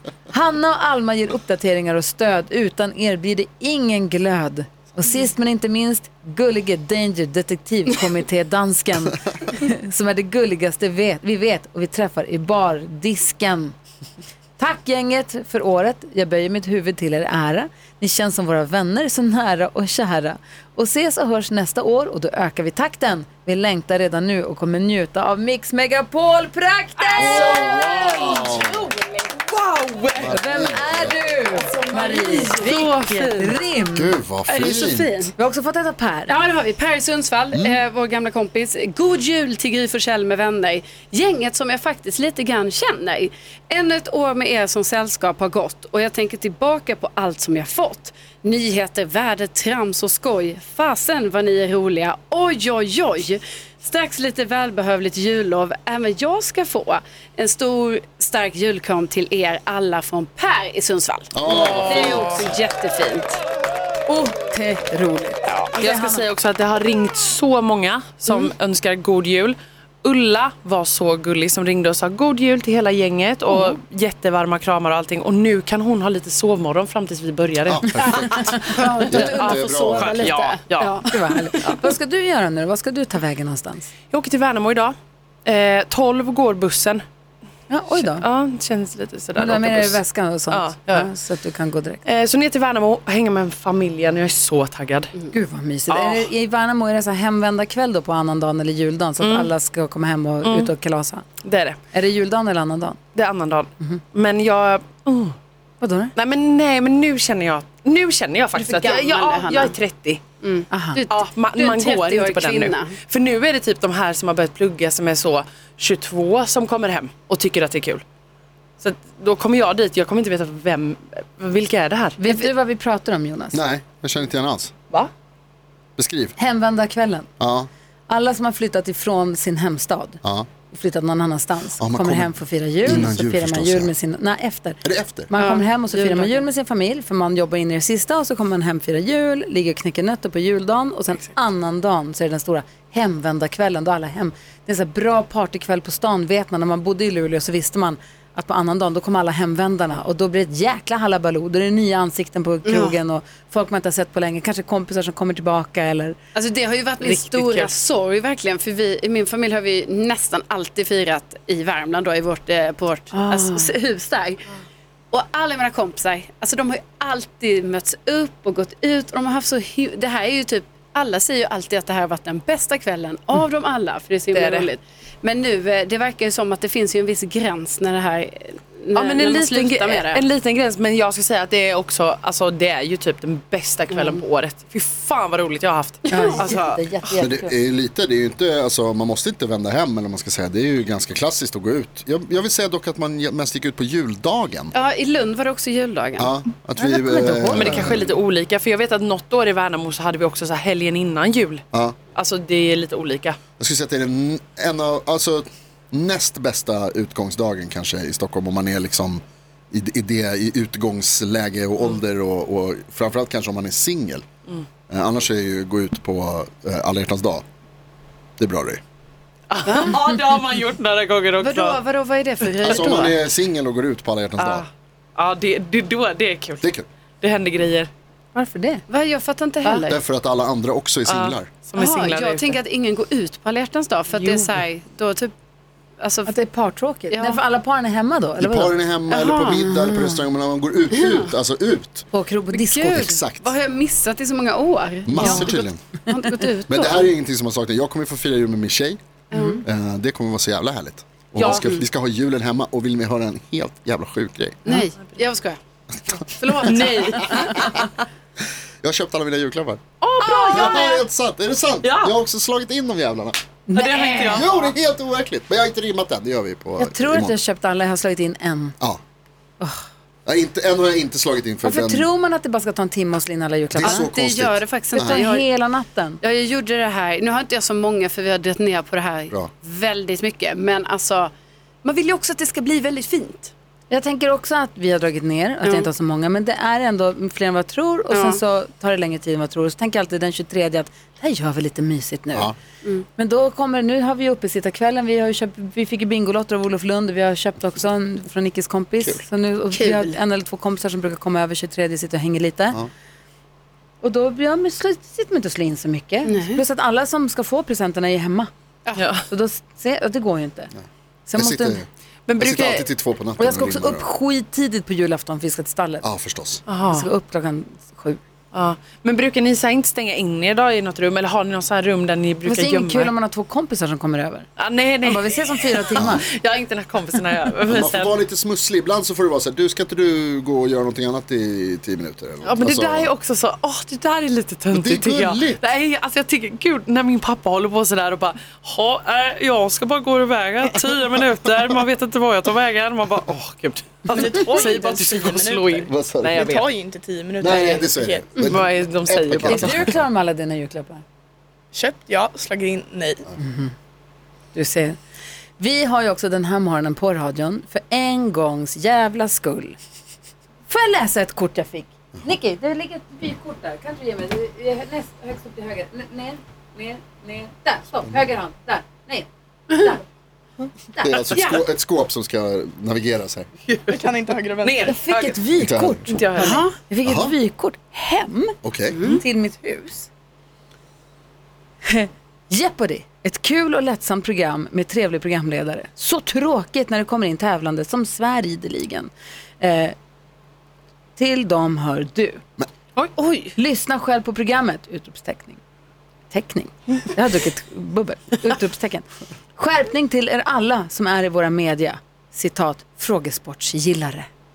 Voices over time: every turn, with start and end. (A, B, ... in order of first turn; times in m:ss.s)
0:00.3-0:13.8 A
0:14.6-0:27.7 A
0:27.0-0:29.4 B
0:27.2-0:28.9 C
0:29.5-0:30.4 D
0:30.2-0:31.2 C
0:30.3-0:34.2 A
0:31.5-0:32.9 B
0:32.5-0:33.6 D
0:33.9-0:35.3 C
0:34.5-0:35.3 B
0:35.4-0:36.3 A
0:36.3-1:03.4 B
0:37.5-0:37.8 C
1:01.3-1:02.4 C
1:01.4-1:02.4 D
1:04.1-1:06.2 A
1:05.5-1:05.8 B
1:05.8-1:21.9 D
1:17.6-1:20.4 C
1:18.0-1:21.4 B
1:21.1-1:23.9 A
1:24.1-1:27.0 D
1:27.7-1:28.2 A
1:28.0-1:30.0 D
1:29.4-1:32.0 A
1:30.5-1:31.1 D
1:32.0-1:35.1 D
1:35.3-1:41.2 A
1:35.9-1:36.3 D
1:39.2-1:39.5 D
1:40.4-1:40.7 D
1:41.4-1:41.8 D
1:41.9-1:43.0 A
1:43.1-1:45.4 D
1:45.8-1:46.1 A
1:46.2-1:50.2 D
1:48.5-1:49.7 B
1:50.4-1:52.9 B
1:50.7-1:51.0 A
1:51.1-1:58.0 D
1:58.8-2:02.2 D
2:02.2-2:03.6 A
2:03.5-2:04.7 C
2:06.0-2:06.4 C
2:06.4-2:07.3 A
2:07.4-2:07.7 C
2:08.1-2:36.2 A
2:10.2-2:10.5 C
2:11.8-2:13.9 C
2:14.8-2:15.3 C
2:15.4-2:16.4 B
2:32.6-2:33.0 B
2:36.4-2:44.4 B
2:37.0-2:37.8 D
2:43.1-2:43.7 A
2:45.1-3:00.2 B
2:54.3-2:54.7 D
2:58.9-3:07.1 D
3:03.9-3:04.2 B
3:06.1-3:06.6 B
3:06.1-3:07.5 A
3:07.2-3:14.7 C
3:14.7-3:16.3 B
3:16.2-3:18.1 C
3:16.8-3:17.9 A
3:17.3-3:23.4 D
3:23.6-3:34.2 C
3:34.9-3:37.4 C
3:38.4-3:38.8 C
3:39.5-3:41.8 D
3:39.6-3:40.0 B
3:41.4-3:43.2 B
3:42.6-3:44.6 C
3:44.4-3:46.7 D
3:46.6-3:46.9 C
3:47.2-3:47.9 D
3:48.4-3:48.8 A
3:48.9-3:50.0 B
3:49.9-3:51.5 C
3:51.0-3:52.6 D
3:51.8-3:55.3 B
3:54.1-3:54.5 D
3:56.0-3:56.3 B
3:56.2-3:58.8 A
3:57.1-3:57.4 B
3:58.4-4:02.1 C
3:59.1-4:00.0 B
3:59.6-4:00.1 A
4:00.9-4:01.3 B
4:02.1-4:03.1 A
4:02.5-4:07.1 B
4:02.8-4:03.5 C
4:05.0-4:05.8 C
4:05.1-4:05.5 A
4:06.7-4:09.0 C
4:09.3-4:09.6 B
4:09.3-4:09.6 A
4:09.6-4:14.6 C
4:11.4-4:11.6 D
4:11.4-4:11.9 B
4:14.6-4:17.7 B
4:15.9-4:16.7 C
4:16.4-4:18.0 D
4:18.8-4:19.8 C
4:20.0-4:20.8 D
4:20.2-4:21.0 B
4:20.5-4:23.4 C
4:21.8-4:22.1 D
4:23.7-4:24.4 A
4:23.7-4:24.5 D
4:24.0-4:24.6 B
4:24.2-4:27.4 C
4:26.8-4:28.8 A
4:29.6-4:29.8 A
4:30.2-4:32.1 C
4:31.6-4:34.1 A
4:33.7-4:35.2 C
4:33.8-4:35.5 B
4:34.9-4:36.2 A
4:36.2-4:41.3 B
4:41.8-4:43.5 B
4:43.9-4:52.5 A
4:45.6-4:45.9 B
4:48.1-4:48.4 B
4:53.2-5:02.8 A
4:59.7-5:00.2 B
5:04.0-5:08.5 A
5:06.2-5:06.6 B
5:08.8-5:09.1 B
5:09.0-5:09.2 D
5:09.3-5:10.7 A
5:11.3-5:11.8 A
5:11.4-5:11.9 C
5:12.3-5:12.9 D
5:12.4-5:14.0 C
5:13.4-5:16.0 A
5:16.0-5:16.6 C
5:16.7-5:17.1 D
5:16.9-5:18.2 A
5:18.5-5:23.1 D
5:22.4-5:24.5 A
5:24.6-5:28.1 D
5:25.0-5:26.2 A
5:26.0-5:26.2 C
5:27.7-5:33.1 C
5:32.4-5:46.7 D
5:34.7-5:35.6 C
5:44.1-5:48.6 E
5:45.9-5:46.4 C
5:47.4-5:50.0 C
5:48.4-5:50.0 D
5:49.4-5:51.0 A
5:51.7-5:53.2 E
5:53.4-5:53.7 A
5:54.5-5:55.0 A
5:55.6-5:59.8 A
6:00.7-6:10.0 A
6:10.9-6:11.3 A
6:11.0-6:13.5 C
6:11.3-6:11.6 B
6:13.7-6:15.4 D
6:13.9-6:15.0 E
6:14.9-6:20.1 A
6:15.6-6:16.1 C
6:16.1-6:16.6 D
6:16.4-6:16.8 B
6:17.0-6:17.3 C
6:18.6-6:19.0 C
6:18.9-6:19.2 B
6:21.8-6:29.9 A
6:31.2-6:32.4 A
6:33.2-6:33.5 B
6:33.6-6:35.6 A
6:36.3-6:44.3 A